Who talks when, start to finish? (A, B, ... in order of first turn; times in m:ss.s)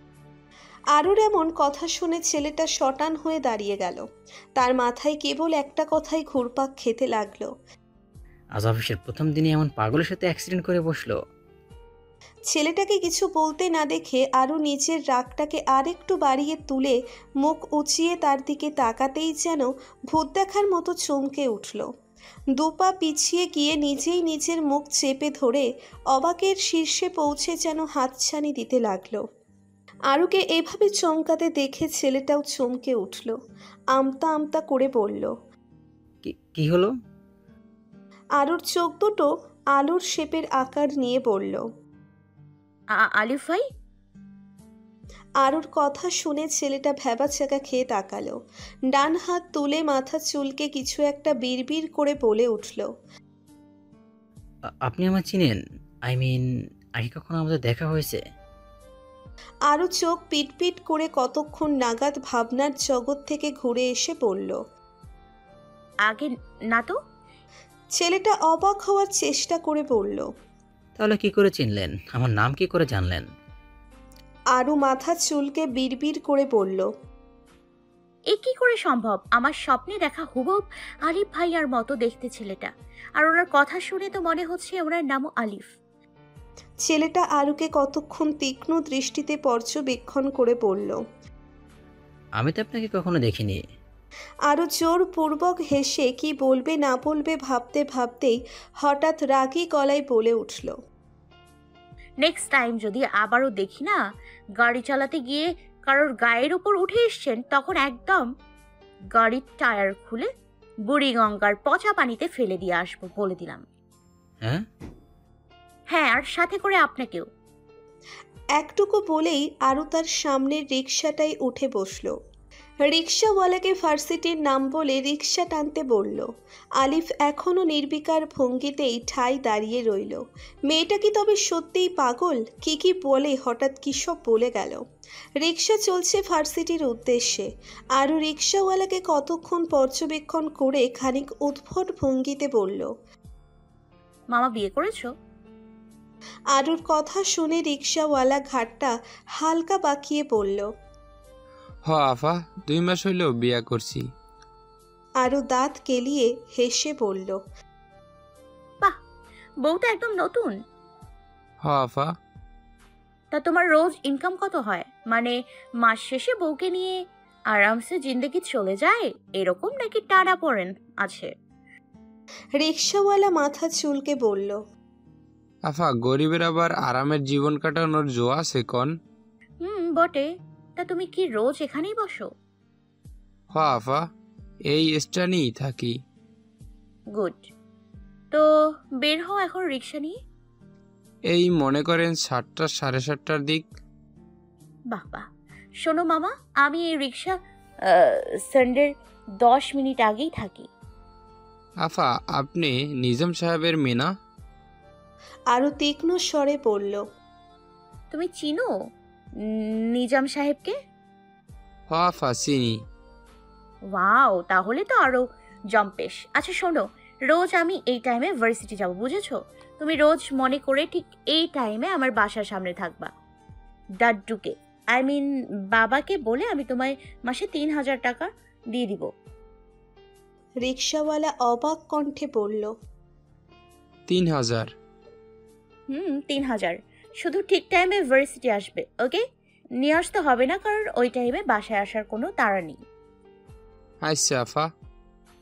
0:00.9-0:04.0 A
0:04.6-0:07.5 A
0:08.6-0:11.1 B
0:12.5-0:21.9 A
0:22.5-0:29.2 A
0:30.1-0:33.4 A
0:33.9-0:35.3 A
0:36.2-0:36.9 B
0:38.4-0:41.6 A
0:42.9-0:43.6 C
0:45.4-0:52.9 A
0:54.8-0:55.6 B
0:56.1-0:56.4 B
0:57.0-0:58.2 B
0:59.7-1:04.6 A
1:06.0-1:07.0 C
1:07.9-1:10.3 A
1:11.0-1:13.3 B
1:14.5-1:16.9 A
1:18.3-1:25.7 C
1:26.8-1:31.0 A
1:32.4-1:33.6 B
1:34.5-1:40.8 A
1:42.2-1:44.0 C
1:44.6-1:48.3 C
1:49.1-1:50.3 C
1:50.9-1:53.6 C
1:55.9-1:57.3 C
1:58.6-2:02.1 A
2:02.8-2:14.8 A
2:15.4-2:22.9 A
2:24.3-2:25.1 C
2:26.5-2:30.7 A
2:31.8-2:34.0 D
2:35.2-2:37.4 A
2:39.6-2:40.5 C
2:41.6-2:42.1 D
2:43.3-2:47.0 C
2:47.5-2:51.3 C
2:52.6-2:54.6 A
2:55.7-2:58.9 D
2:59.6-3:02.3 C
3:03.5-3:04.0 D
3:04.7-3:06.0 D
3:07.1-3:07.5 C
3:09.0-3:10.1 C
3:11.3-3:13.7 D
3:14.9-3:15.2 C
3:15.8-3:17.4 C
3:17.9-3:18.9 C
3:19.4-3:20.7 C
3:21.8-3:24.1 D
3:25.5-3:27.0 A
3:28.1-3:28.7 C
3:29.6-3:30.7 C
3:31.9-3:32.8 D
3:33.9-3:43.1 C
3:44.0-3:45.2 C
3:45.7-3:49.1 C
3:50.6-3:52.7 A
3:54.1-3:54.7 D
3:55.9-3:59.2 C
3:59.8-4:02.8 C
4:04.0-4:04.7 D